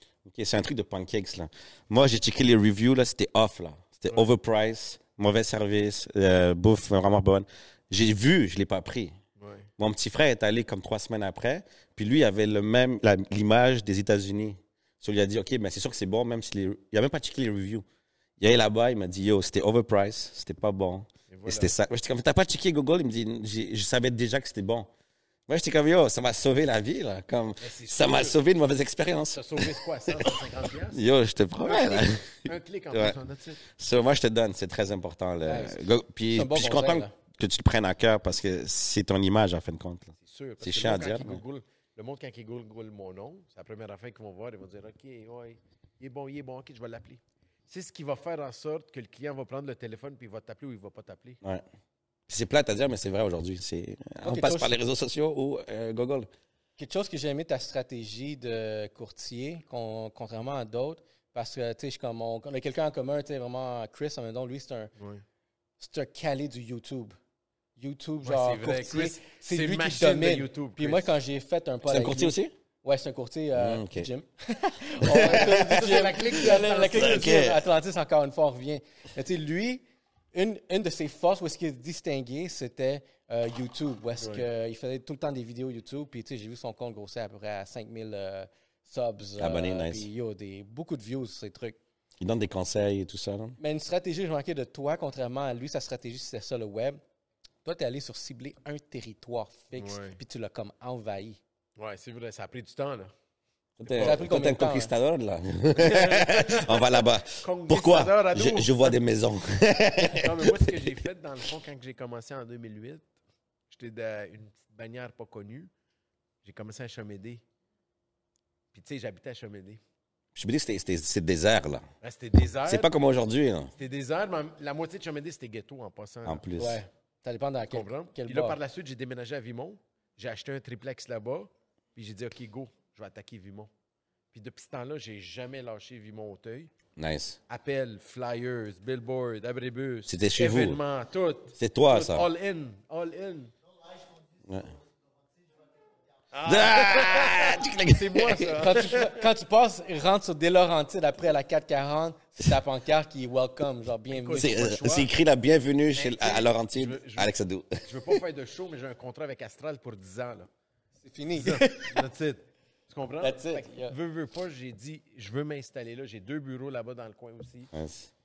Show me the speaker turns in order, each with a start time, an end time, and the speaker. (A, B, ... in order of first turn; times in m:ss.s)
0:00.2-0:09.2 A
0:09.4-0:09.7 B
0:09.8-0:17.8 A
0:18.4-0:24.9 A
0:21.3-0:21.7 B
0:25.5-0:30.4 A
0:27.6-0:28.4 B
0:29.3-0:31.0 B
0:30.9-0:41.4 A
0:31.6-0:33.6 B
0:35.4-0:37.1 C
0:40.2-0:51.4 B
0:52.3-0:56.3 A
0:54.2-0:54.8 C
0:56.8-1:04.9 C
1:05.8-1:07.2 C
1:07.8-1:19.8 C
1:08.2-1:11.1 B
1:11.8-1:12.5 A
1:13.6-1:14.1 A
1:15.0-1:16.4 A
1:15.1-1:17.3 B
1:16.9-1:17.6 A
1:20.3-1:31.8 C
1:24.2-1:24.4 B
1:29.4-1:30.1 A
1:32.2-1:33.6 A
1:33.6-1:37.0 C
1:37.6-1:41.4 C
1:39.8-1:40.2 B
1:41.8-1:43.1 B
1:43.8-1:51.0 A
1:43.8-1:44.3 B
1:44.0-1:44.9 C
1:45.8-1:49.0 B
1:50.0-1:53.1 B
1:53.7-1:55.7 B
1:56.4-1:57.4 B
1:58.7-1:59.8 B
2:00.4-2:01.9 A
2:02.0-2:02.9 B
2:02.7-2:03.7 A
2:03.8-2:06.4 B
2:06.3-2:06.8 A
2:06.6-2:08.6 C
2:07.7-2:13.7 B
2:14.3-2:16.7 B
2:17.0-2:17.4 A
2:17.5-2:23.5 B
2:20.1-2:20.8 A
2:21.6-2:22.3 A
2:24.4-2:24.8 A
2:26.3-2:29.3 B
2:26.4-2:28.6 A
2:28.6-2:34.7 C
2:34.1-2:35.1 B
2:34.4-2:37.9 A
2:35.9-2:40.5 B
2:41.0-2:42.0 C
2:41.4-2:47.7 B
2:43.2-2:44.0 C
2:47.7-2:48.1 A